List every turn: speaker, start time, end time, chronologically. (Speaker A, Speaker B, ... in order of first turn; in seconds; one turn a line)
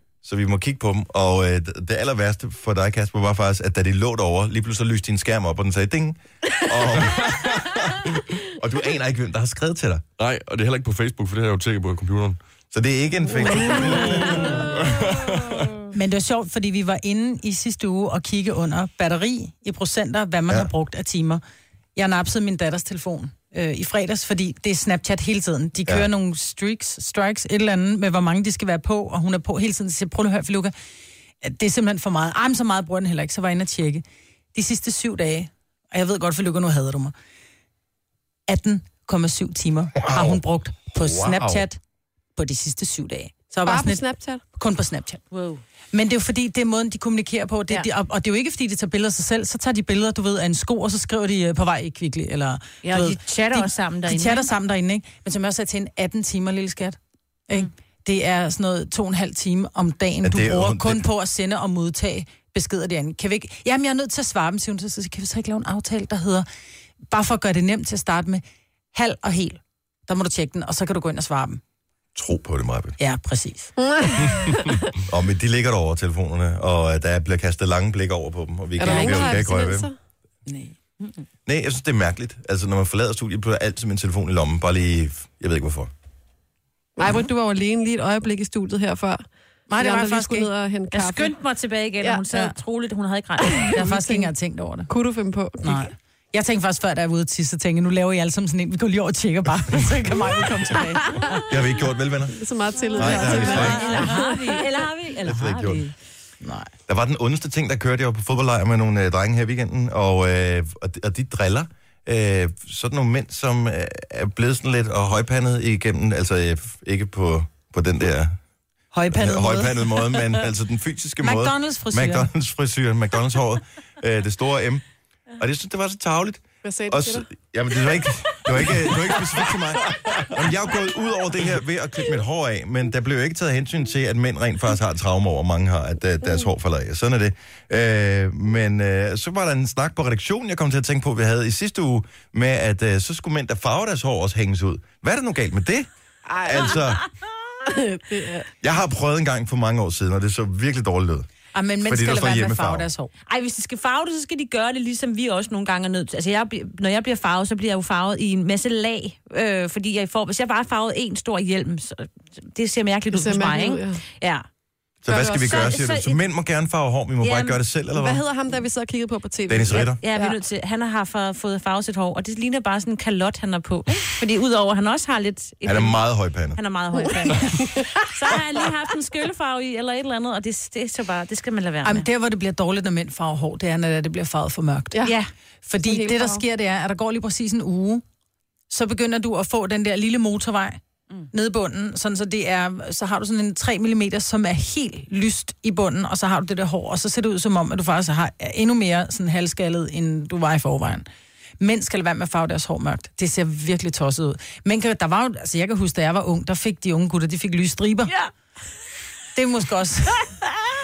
Speaker A: 0.2-10.0
Speaker B: 10.2-12.4
Speaker A: 12.7-14.8
Speaker B: 14.2-15.7
Speaker C: 15.9-21.4
Speaker C: 22.0-30.7
Speaker C: 31.4-37.1
Speaker C: 38.5-41.8
Speaker A: 40.0-40.4
Speaker A: 41.0-41.6
Speaker C: 42.4-45.2
Speaker D: 43.6-44.4
Speaker E: 45.3-45.6
Speaker C: 45.9-66.5
Speaker E: 52.8-54.5
Speaker A: 60.2-61.1
Speaker C: 67.1-71.6
Speaker A: 72.2-73.0
Speaker C: 73.0-73.7
Speaker D: 73.8-74.8
Speaker A: 75.0-79.9
Speaker D: 78.8-80.0
Speaker C: 78.8-79.5
Speaker C: 80.5-80.8
Speaker A: 81.5-85.9
Speaker D: 87.0-89.2
Speaker C: 89.7-90.5
Speaker D: 89.8-91.3
Speaker E: 90.9-93.8
Speaker D: 93.5-94.3
Speaker C: 93.7-94.9
Speaker D: 94.9-95.9
Speaker C: 95.6-101.4
Speaker D: 101.1-101.4
Speaker A: 101.5-104.0
Speaker D: 102.3-104.7
Speaker C: 102.9-104.2
Speaker E: 103.1-105.9
Speaker A: 105.2-105.9
Speaker C: 106.4-106.7
Speaker A: 106.9-118.4
Speaker C: 118.9-120.5
Speaker A: 119.1-124.8
Speaker C: 121.2-122.3
Speaker A: 125.4-145.9
Speaker D: 126.6-127.3
Speaker D: 146.3-146.8
Speaker A: 146.4-147.0
Speaker D: 147.7-148.5
Speaker A: 148.6-151.3
Speaker C: 151.5-153.1
Speaker A: 151.8-152.9
Speaker E: 153.3-164.4
Speaker D: 163.1-164.0
Speaker A: 165.0-168.2
Speaker D: 165.1-165.7
Speaker E: 165.3-166.2
Speaker E: 167.2-167.6
Speaker D: 167.9-170.4
Speaker A: 169.5-170.0
Speaker E: 169.7-176.0
Speaker A: 175.6-176.6
Speaker E: 176.5-182.1
Speaker D: 177.0-178.0
Speaker C: 181.8-185.0
Speaker E: 185.0-185.3
Speaker C: 185.7-188.0
Speaker D: 185.8-186.4
Speaker C: 188.7-190.8
Speaker C: 191.3-201.1
Speaker C: 201.6-208.1
Speaker C: 209.3-210.2